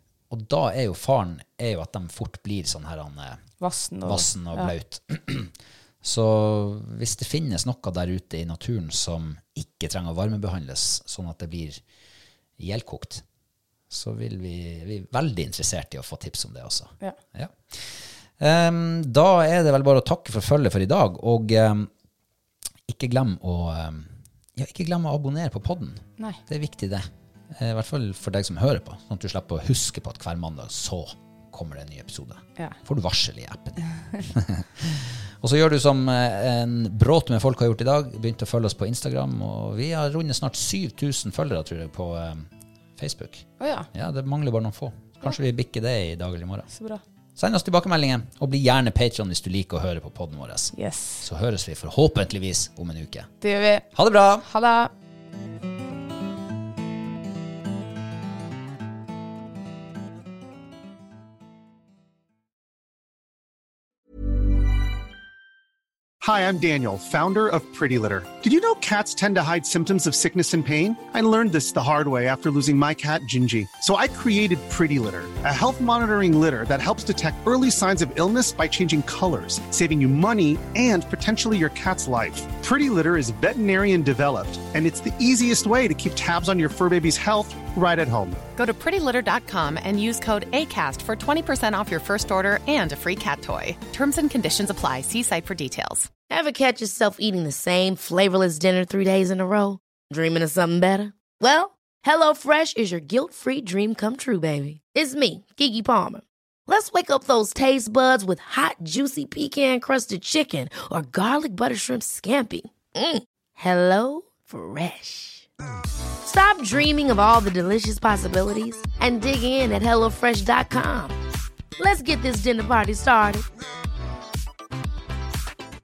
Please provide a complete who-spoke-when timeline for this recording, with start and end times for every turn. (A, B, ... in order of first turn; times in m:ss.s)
0:00.3-0:03.4 A
0:03.6-0:04.7 B
0:04.0-0:11.8 A
0:12.6-0:13.2 A
0:13.9-0:21.9 A
0:22.9-0:46.7 A
0:43.6-0:43.9 B
0:46.7-0:47.0 B
0:47.4-0:53.3 A
0:50.8-0:51.2 B
0:53.4-0:53.9 B
0:53.9-0:54.5 A
0:54.4-0:54.9 B
1:06.2-1:28.4 C
1:28.6-1:36.1 D
1:36.3-1:55.5 E
1:56.2-2:01.2 E
2:01.8-2:03.5 E